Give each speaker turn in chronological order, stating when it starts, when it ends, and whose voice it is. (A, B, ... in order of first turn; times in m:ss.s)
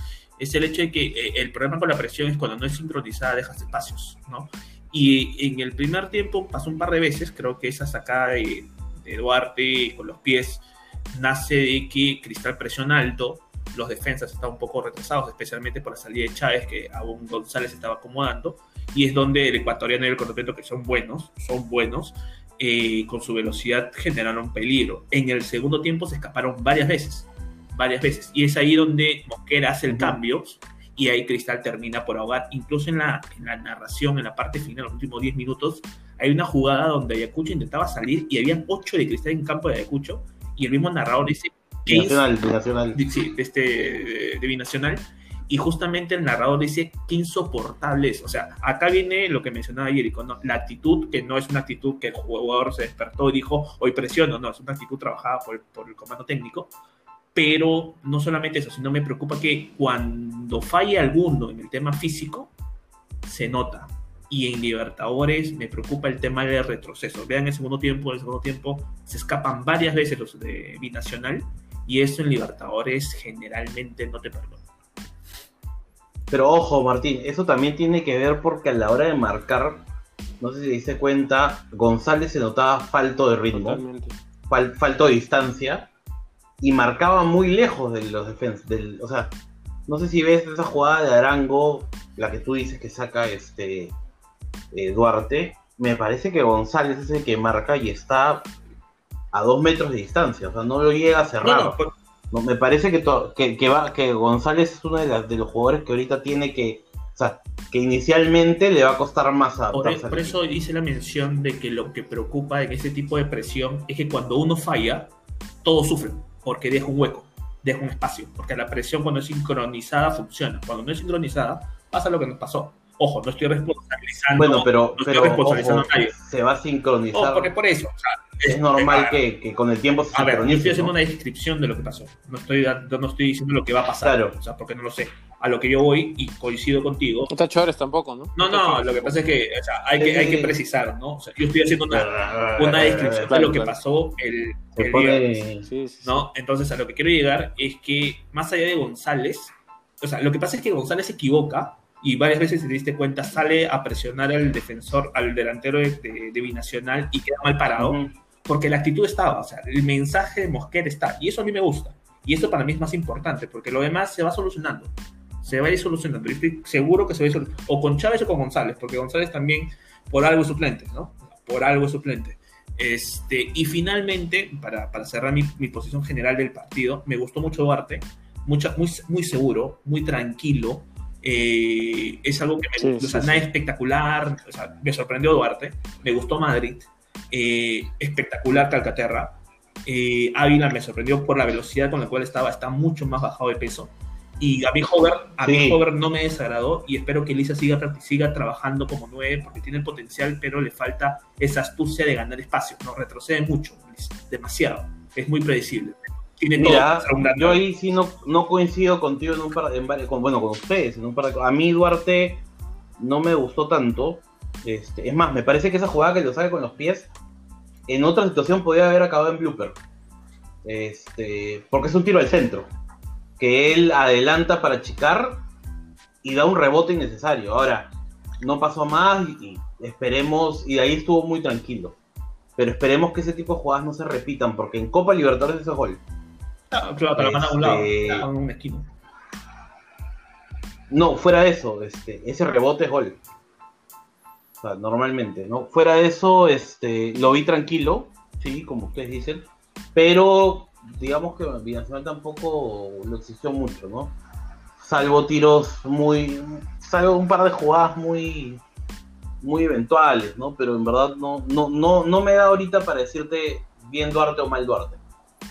0:00.4-0:42.2 A
0:29.9-0:30.2 B
0:41.9-0:43.0 B
0:42.9-0:56.7 A
0:57.3-1:02.5 A
1:03.2-1:14.6 A
1:16.3-1:19.8 B
1:20.4-1:23.8 B
1:23.5-1:24.2 C
1:24.5-1:25.9 B
1:26.6-1:29.3 B
1:29.9-1:33.9 B
1:34.7-1:38.5 B
1:39.3-1:41.8 B
1:41.4-1:41.9 A
1:42.3-1:50.4 B
1:49.7-1:55.1 A
1:55.6-2:06.2 A
2:04.4-2:07.6 B
2:07.1-2:09.2 A
2:08.4-2:10.9 B
2:10.1-2:17.3 A
2:14.0-2:14.3 B
2:17.3-2:19.2 C
2:18.4-2:25.4 A
2:20.0-2:20.5 B
2:21.9-2:23.3 B
2:23.3-2:23.7 C
2:24.8-2:25.7 B
2:25.6-2:26.2 C
2:26.0-3:27.6 A
2:37.8-2:38.1 B
3:02.8-3:03.4 C
3:15.4-3:15.8 B
3:26.6-3:32.4 B
3:33.0-3:37.1 B
3:37.9-3:39.8 B
3:40.6-3:42.7 B
3:43.4-3:45.4 B
3:46.2-3:52.0 B
3:52.6-3:56.0 B
3:56.7-3:58.9 A
3:57.2-3:58.3 B
4:00.9-4:03.2 B
4:04.6-4:14.2 B
4:14.8-4:18.6 B
4:19.4-4:25.0 B